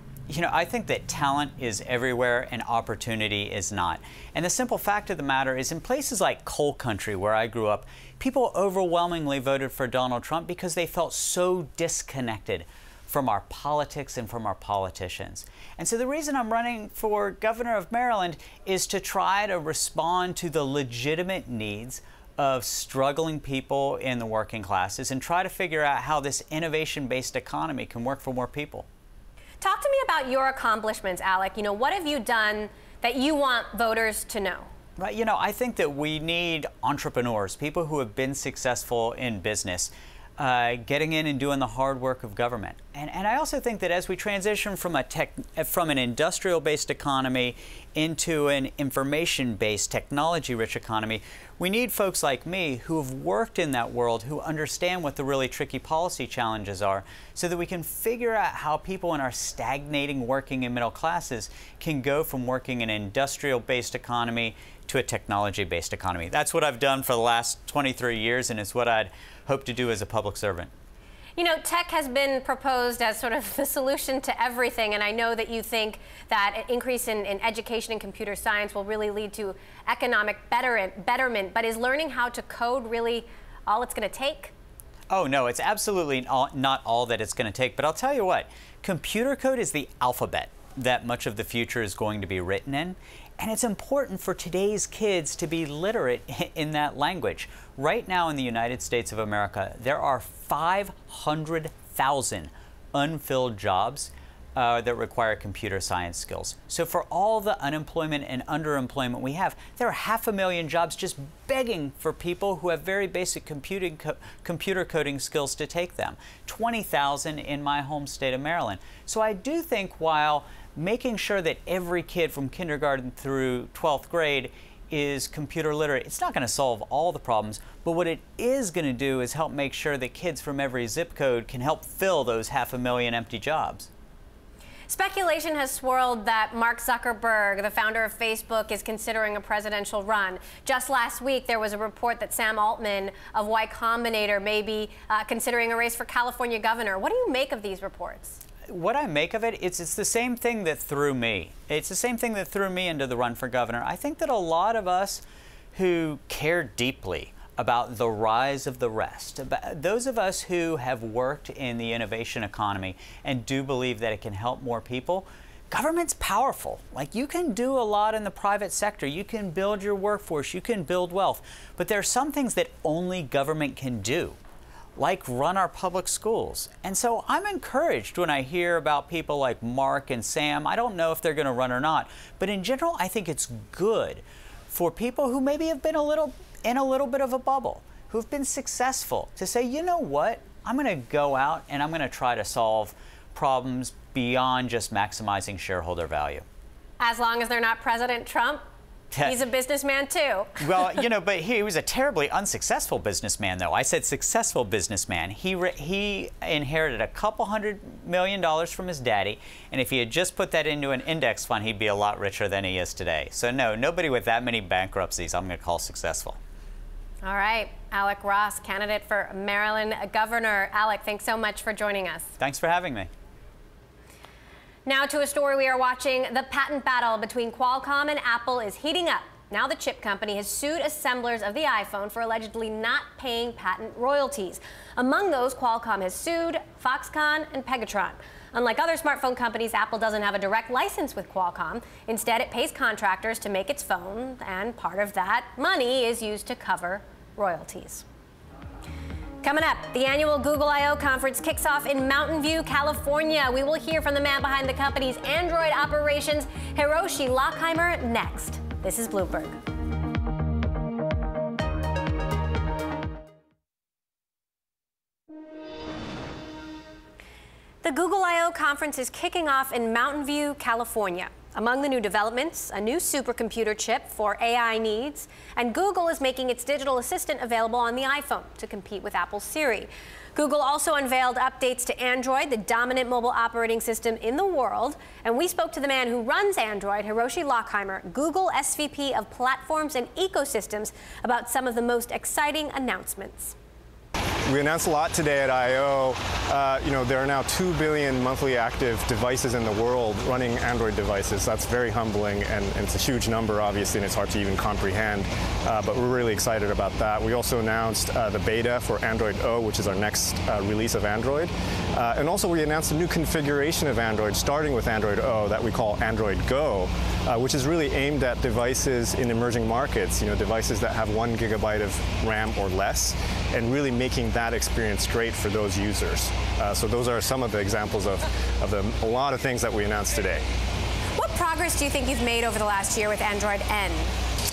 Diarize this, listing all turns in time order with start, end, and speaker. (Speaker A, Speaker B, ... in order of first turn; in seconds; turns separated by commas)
Speaker A: 0.3-28.9, Speaker B: 29.6-34.7, Speaker A: 35.0-70.7, Speaker B: 71.3-84.5, Speaker A: 85.1-133.9, Speaker B: 134.9-148.4, Speaker A: 148.7-155.2, Speaker A: 155.7-174.4, Speaker A: 174.9-196.4, Speaker B: 197.0-198.6, Speaker A: 199.1-199.4, Speaker B: 199.2-200.6, Speaker A: 200.6-216.4, Speaker B: 217.2-222.3, Speaker A: 222.4-223.1, Speaker B: 224.8-248.0, Speaker B: 249.4-259.6, Speaker B: 267.8-293.5, Speaker C: 294.4-330.4, Speaker B: 331.1-334.1